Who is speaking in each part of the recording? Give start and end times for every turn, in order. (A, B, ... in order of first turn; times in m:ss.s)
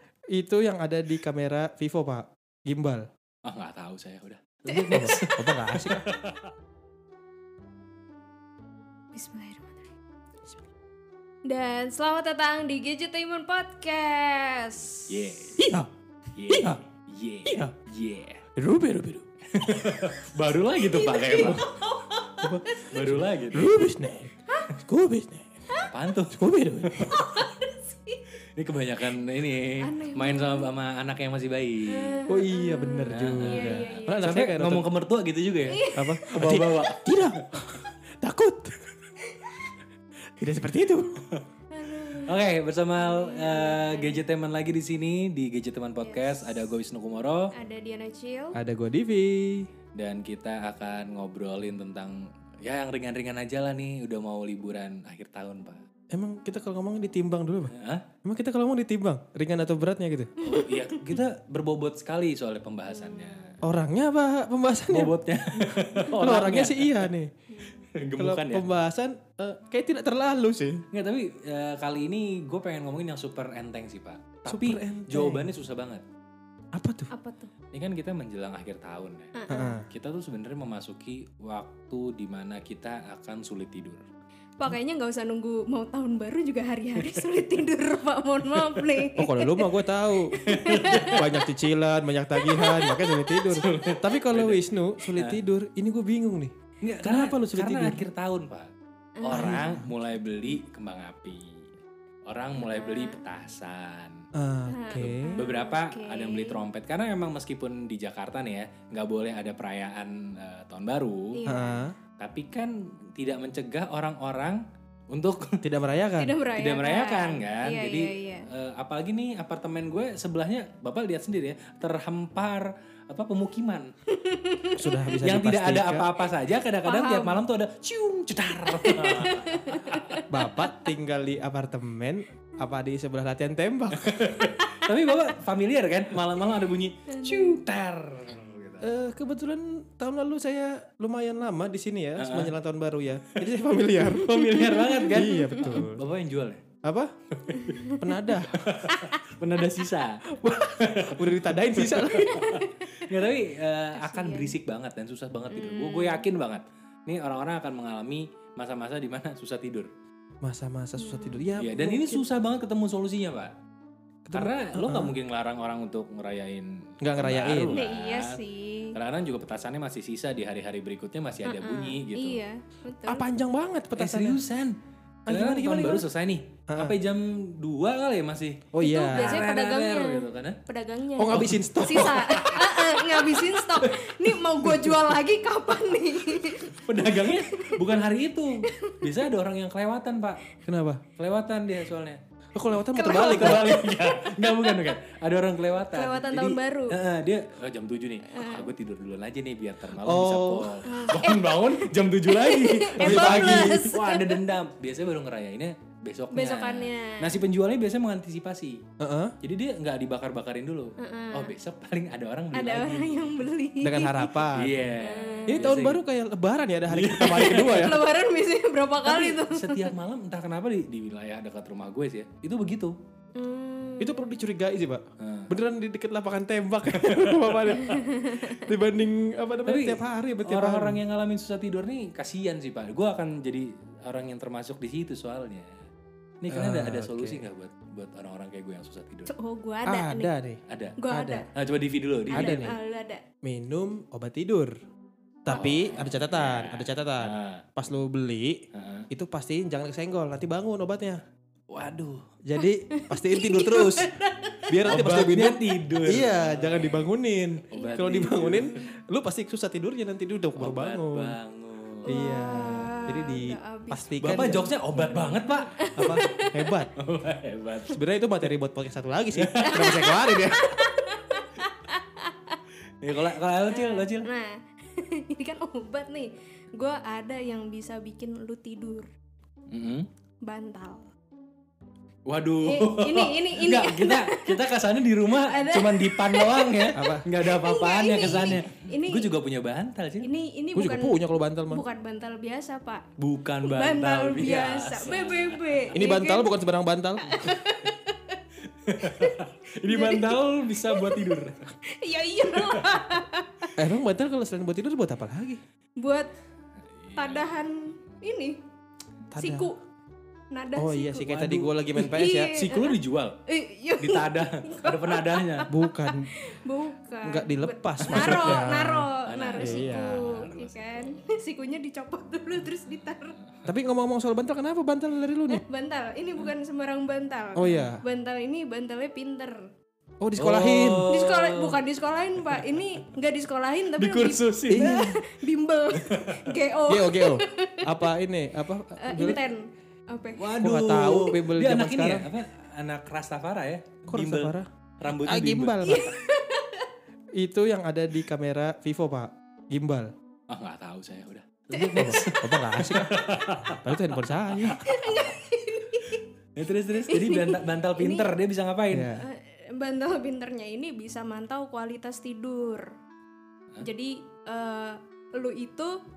0:00.3-0:03.1 A
0:03.4-0:06.5 B
0:04.7-0:06.1 A
0:09.1-0:09.9 C
0:11.5-0:15.5 C
0:15.1-0:15.8 B
0:15.6-0:15.9 A
0:16.4-0:18.4 B
0:16.5-0:16.8 A
0:17.5-0:17.7 A
0:18.6-0:19.3 A
0:19.5-0:21.7 B
0:20.8-0:23.0 C
0:22.4-0:25.5 A
0:22.8-0:23.7 B
0:25.8-0:26.4 B
0:26.3-0:27.3 A
0:27.1-0:28.2 C
0:28.6-0:32.2 B
0:29.8-0:30.7 C
0:31.9-0:34.3 C
0:32.3-0:34.9 A
0:33.1-0:37.4 B
0:35.7-0:36.2 C
0:35.9-0:38.9 A
0:39.3-0:39.6 C
0:40.4-0:41.3 A
0:41.7-0:42.4 C
0:42.2-0:47.5 B
0:43.0-0:44.2 C
0:46.0-0:46.4 C
0:47.5-0:48.6 C
0:48.5-0:49.7 A
0:50.0-0:55.8 B
0:56.1-1:00.3 A
0:57.7-0:58.1 B
1:00.4-1:00.9 C
1:00.4-1:03.6 B
1:03.0-1:03.5 C
1:03.6-1:07.3 A
1:04.9-1:07.1 B
1:07.5-1:07.8 C
1:08.0-1:08.6 B
1:08.2-1:10.8 A
1:10.9-1:16.0 B
1:14.5-1:15.5 A
1:16.8-1:17.1 A
1:17.1-1:17.5 C
1:17.7-1:24.0 B
1:19.4-1:19.8 C
1:19.5-1:19.9 A
1:24.6-1:29.7 C
1:28.6-1:28.8 B
1:29.2-1:38.1 A
1:30.4-1:31.4 C
1:30.4-1:31.3 B
1:32.4-1:33.6 C
1:33.5-1:35.4 B
1:36.8-1:38.7 B
1:39.2-1:39.8 C
1:39.2-1:41.6 B
1:39.3-1:39.9 A
1:42.3-1:44.2 B
1:42.6-1:43.2 C
1:44.4-1:45.5 A
1:44.7-1:46.6 C
1:45.0-1:51.4 B
1:51.3-1:51.9 C
1:51.5-1:52.0 A
1:52.2-1:55.6 B
1:55.6-1:56.4 A
1:56.2-1:58.5 C
1:56.5-2:03.9 B
2:04.1-2:05.2 C
2:04.8-2:06.1 A
2:05.2-2:10.2 B
2:06.8-2:07.4 C
2:08.7-2:10.7 C
2:10.3-2:14.4 A
2:14.0-2:18.9 B
2:14.6-2:15.3 C
2:17.1-2:17.6 C
2:18.8-2:26.0 A
2:22.2-2:22.5 B
2:24.1-2:26.6 B
2:24.6-2:25.7 C
2:26.8-2:27.1 A
2:27.4-2:27.9 B
2:27.5-2:28.0 C
2:28.0-2:28.7 A
2:28.5-2:39.9 B
2:30.3-2:32.6 A
2:32.2-2:33.1 C
2:34.0-2:34.6 C
2:35.5-2:36.3 C
2:40.4-2:42.3 A
2:41.0-2:41.5 C
2:41.6-2:43.5 B
2:44.2-2:45.2 A
2:44.3-2:48.4 B
2:47.0-2:47.8 A
2:47.7-2:49.0 C
2:48.9-2:52.4 B
2:51.4-2:53.2 C
2:53.1-2:54.4 A
2:54.0-3:00.6 B
2:55.3-2:56.1 A
2:56.7-2:57.0 A
2:58.7-2:59.5 A
2:58.8-3:07.8 C
3:01.2-3:02.5 A
3:01.3-3:04.1 B
3:04.6-3:05.0 A
3:06.7-3:10.4 B
3:08.6-3:09.1 C
3:10.7-3:11.0 A
3:11.2-3:12.2 B
3:12.5-3:13.8 A
3:12.9-3:14.1 C
3:13.0-3:28.8 B
3:15.9-3:17.0 C
3:18.3-3:18.7 C
3:20.0-3:20.8 A
3:20.8-3:24.4 C
3:23.0-3:23.9 A
3:26.3-3:27.4 C
3:29.0-3:29.4 A
3:29.4-3:33.5 B
3:31.0-3:31.5 C
3:32.5-3:34.4 C
3:33.8-3:34.8 A
3:34.5-3:36.0 B
3:35.0-3:35.7 C
3:35.5-3:38.0 A
3:36.9-3:38.0 B
3:37.6-3:39.9 C
3:39.0-3:43.0 B
3:43.4-3:44.2 C
3:44.0-3:51.0 A
3:45.2-3:45.5 B
3:47.0-3:47.8 B
3:47.8-3:48.6 C
3:49.7-3:55.8 B
3:56.4-3:59.3 B
3:56.5-3:57.5 A
3:59.3-4:00.3 C
3:59.9-4:01.5 A
4:00.7-4:01.0 B
4:01.0-4:01.5 C
4:01.5-4:02.6 B
4:02.3-4:03.2 C
4:02.3-4:02.8 A
4:03.4-4:04.7 A
4:05.4-4:11.2 A
4:05.5-4:07.6 B
4:08.7-4:09.1 B
4:11.7-4:12.3 B
4:12.4-4:14.1 A
4:12.6-4:14.7 C
4:14.7-4:21.4 A
4:14.9-4:17.1 B
4:17.7-4:18.8 B
4:17.7-4:18.8 C
4:20.6-4:22.1 B
4:22.1-4:26.8 C
4:22.1-4:24.7 A
4:24.2-4:26.2 B
4:26.0-4:26.9 A
4:27.0-4:28.0 B
4:27.9-4:30.9 A
4:29.3-4:30.0 B
4:29.6-4:32.6 C
4:33.0-4:34.3 B
4:33.7-4:39.1 C
4:39.7-4:40.1 B
4:40.4-4:41.1 C
4:42.3-4:50.3 B
4:42.6-4:44.6 C
4:45.3-4:49.3 C
4:46.9-4:47.3 A
4:50.2-4:53.0 C
4:50.8-4:51.8 A
4:53.2-4:55.9 B
4:53.6-4:56.5 C
4:55.9-4:57.6 A
4:57.2-4:58.4 C
4:58.8-5:01.7 B
4:59.0-5:03.8 C
5:02.5-5:03.0 B
5:03.8-5:05.6 A
5:06.0-5:06.3 C
5:07.0-5:07.5 B
5:07.2-5:08.6 C
5:09.3-5:09.7 A
5:09.4-5:09.8 C
5:10.5-5:23.4 C
5:10.8-5:12.6 A
5:11.4-5:13.4 B
5:14.0-5:15.7 B
5:15.7-5:16.3 A
5:17.2-5:20.3 A
5:18.0-5:18.7 B
5:19.2-5:21.2 B
5:23.7-5:25.6 A
5:25.5-5:29.7 C
5:27.6-5:28.0 A
5:30.2-5:31.1 A
5:30.4-5:31.8 B
5:31.1-5:38.0 C
5:32.5-5:32.8 B
5:34.0-5:35.1 B
5:34.7-5:35.2 A
5:36.0-5:36.6 B
5:36.9-5:39.4 A
5:39.0-5:40.6 C
5:40.4-5:46.1 B
5:40.6-5:42.3 A
5:44.1-5:46.1 A
5:45.8-5:46.9 C
5:47.4-5:50.1 A
5:50.5-5:54.8 B
5:51.7-5:52.3 C
5:52.0-5:54.9 A
5:54.8-5:56.2 C
5:56.6-5:59.1 B
5:57.1-5:58.3 C
5:58.9-5:59.3 A
5:59.2-6:02.9 C
6:03.8-6:06.0 C